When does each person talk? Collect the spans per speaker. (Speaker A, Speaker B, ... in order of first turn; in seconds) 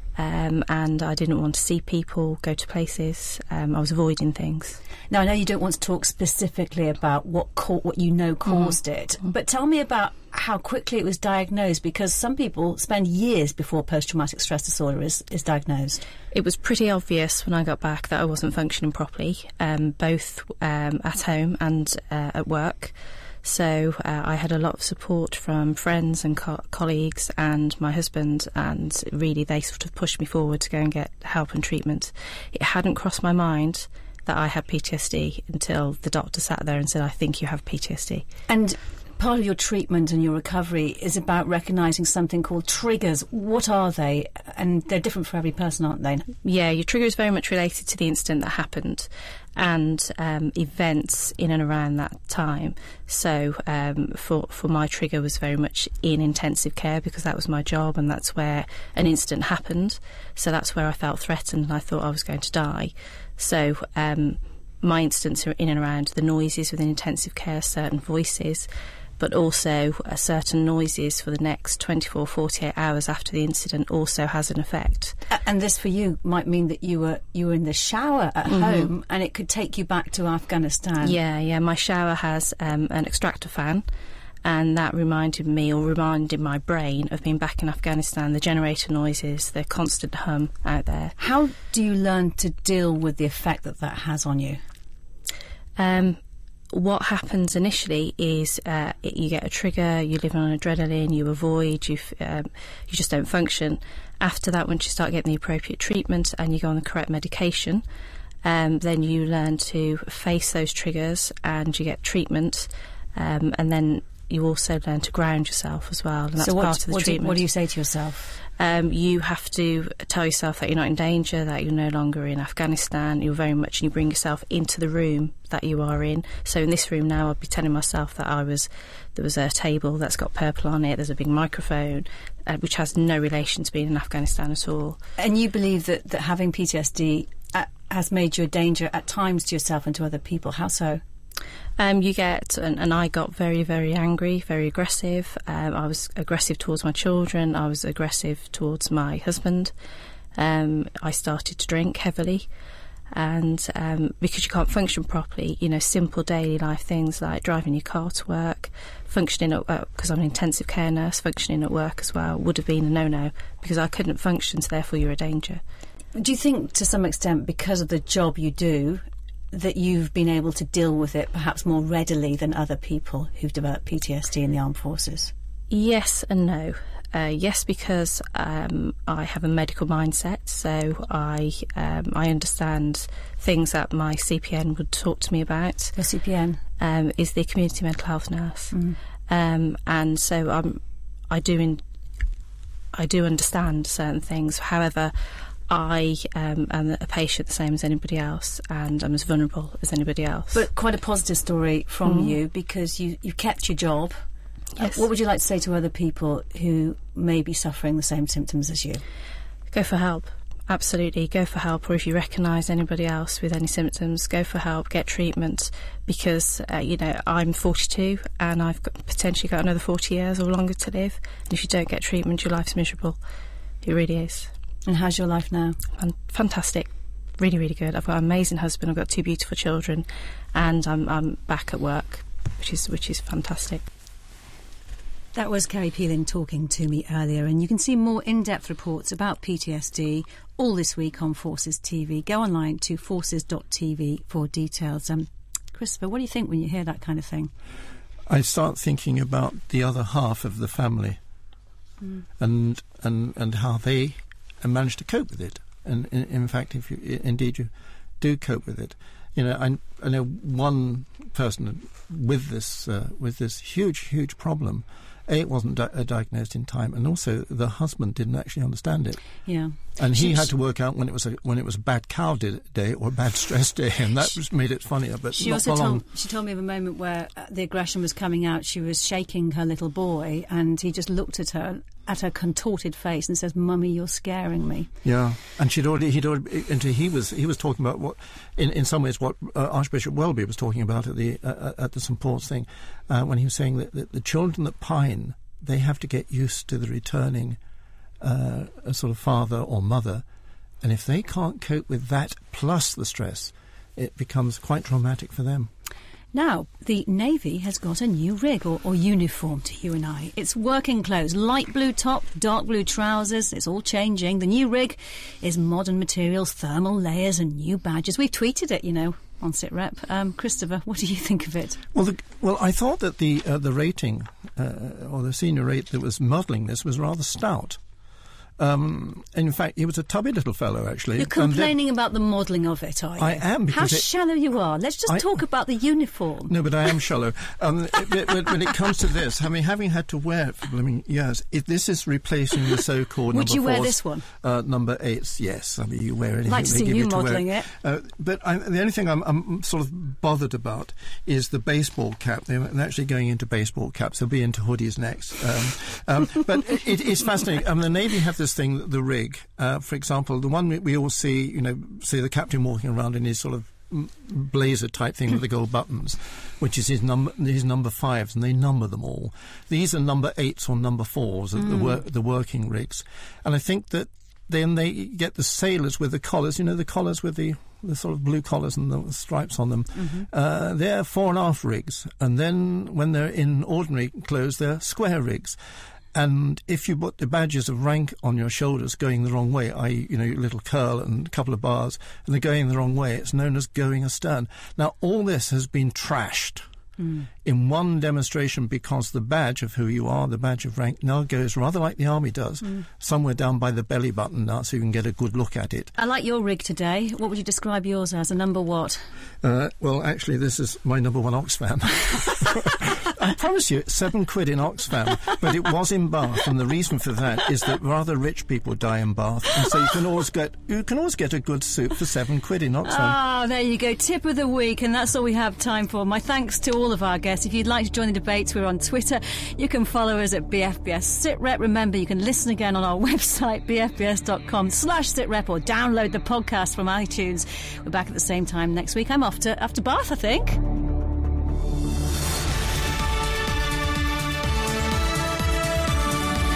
Speaker A: 0.2-4.8, 8.5-8.8, 16.3-38.2, 46.4-68.7, 69.2-75.2, 78.5-78.9, 81.0-83.8, 84.5-91.2, 95.8-96.2, 96.7-107.8, 108.4-117.4, 118.6-135.0, 141.8-149.7, 150.4-152.5, 153.1-165.6, 175.7-186.0, 186.8-188.8, 189.3-191.8, 193.0-195.1, 195.7-200.7, 202.1-202.4, 209.7-223.2, 223.8-224.5, 226.0-233.8
Speaker B: 5.1-16.0, 38.5-46.3, 75.3-81.2, 91.2-94.6, 116.4-118.3, 135.2-141.0, 166.2-175.3, 186.0-186.6, 200.5-204.2, 204.8-209.0, 224.9-225.8, 235.3-247.5, 269.4-270.5, 275.4-284.9, 306.3-321.8, 331.2-336.5, 343.3-344.2, 346.5-347.7, 379.9-380.3, 397.0-397.3, 406.0-409.1, 422.9-440.6
Speaker C: 248.3-251.2, 252.4-269.3, 270.0-276.1, 285.0-297.6, 298.2-300.2, 300.8-305.7, 321.9-327.8, 328.6-331.7, 333.2-334.1, 336.5-385.6, 386.1-396.6, 397.4-405.9, 409.4-423.2